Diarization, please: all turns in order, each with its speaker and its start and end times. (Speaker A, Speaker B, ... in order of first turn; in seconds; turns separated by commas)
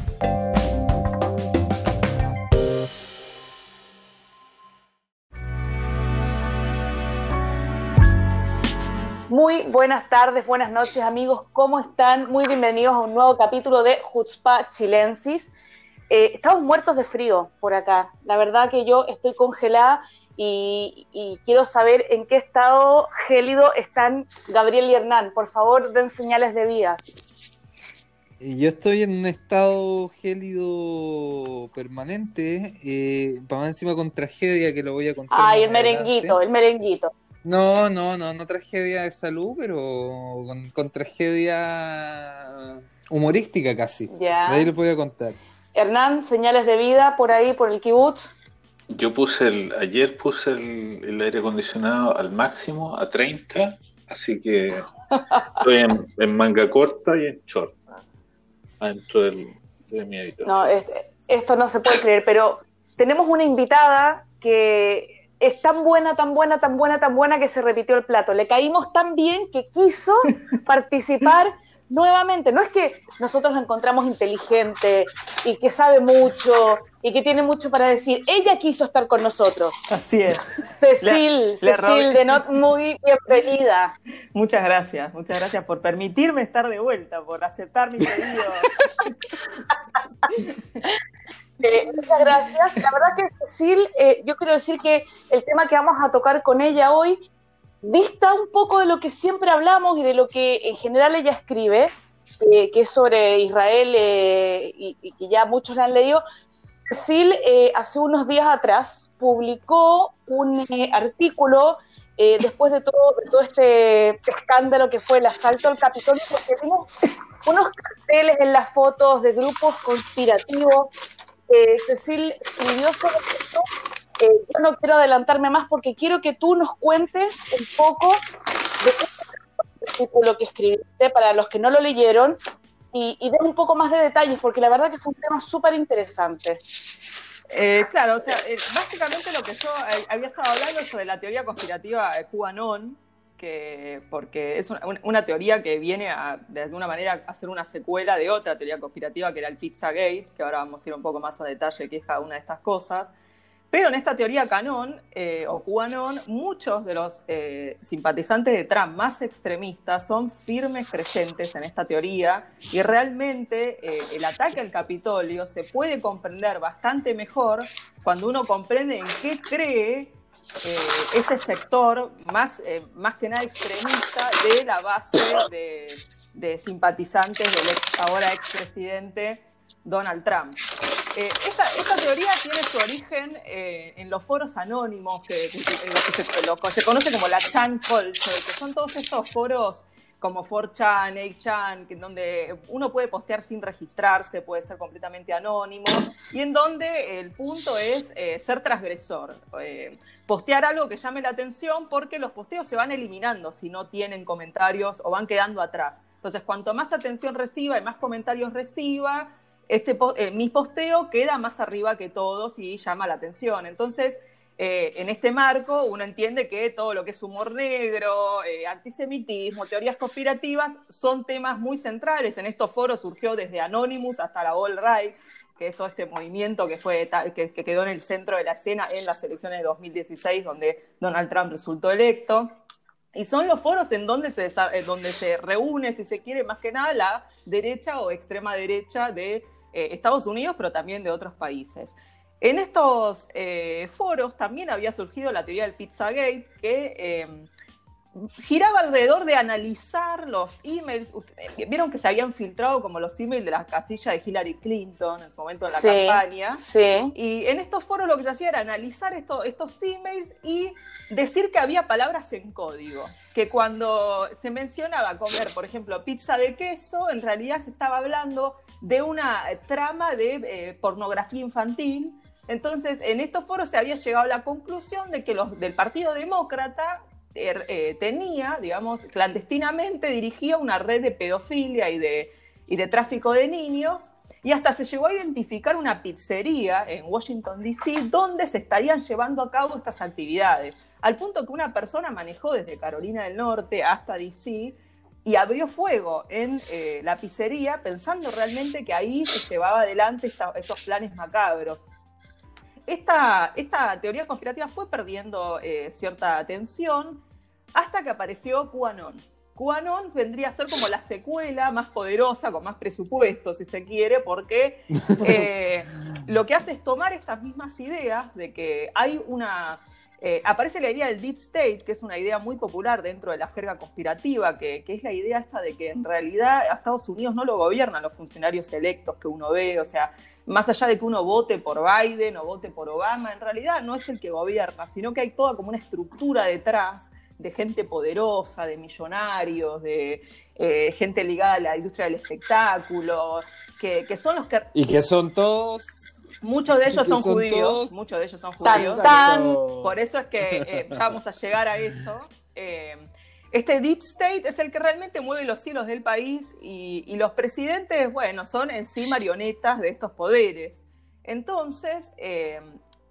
Speaker A: 9.3-15.5, Speaker A: 16.1-27.0, Speaker B: 28.4-36.4, Speaker A: 35.3-37.1, Speaker B: 37.4-45.4, Speaker A: 44.1-44.7, Speaker A: 45.8-48.4, Speaker C: 48.9-54.9, Speaker C: 55.5-57.8, Speaker C: 58.8-60.6, Speaker A: 60.5-79.8, Speaker D: 79.9-80.5, Speaker A: 80.8-83.9, Speaker D: 81.0-82.4, Speaker D: 84.3-88.7, Speaker A: 91.6-97.2, Speaker A: 97.8-106.2, Speaker A: 106.9-116.9, Speaker A: 117.5-120.9, Speaker A: 121.5-123.7, Speaker A: 124.2-128.2, Speaker A: 128.8-129.1, Speaker A: 129.8-132.4, Speaker A: 132.9-136.6, Speaker D: 137.5-153.1, Speaker D: 153.7-180.6, Speaker D: 181.1-232.5, Speaker D: 233.1-247.5, Speaker D: 248.2-256.6, Speaker A: 255.7-257.1, Speaker D: 257.1-301.8, Speaker D: 302.9-307.2, Speaker D: 307.8-344.7, Speaker B: 344.7-346.1, Speaker D: 346.4-362.8, Speaker B: 346.9-348.0, Speaker A: 348.6-349.6, Speaker B: 348.7-350.0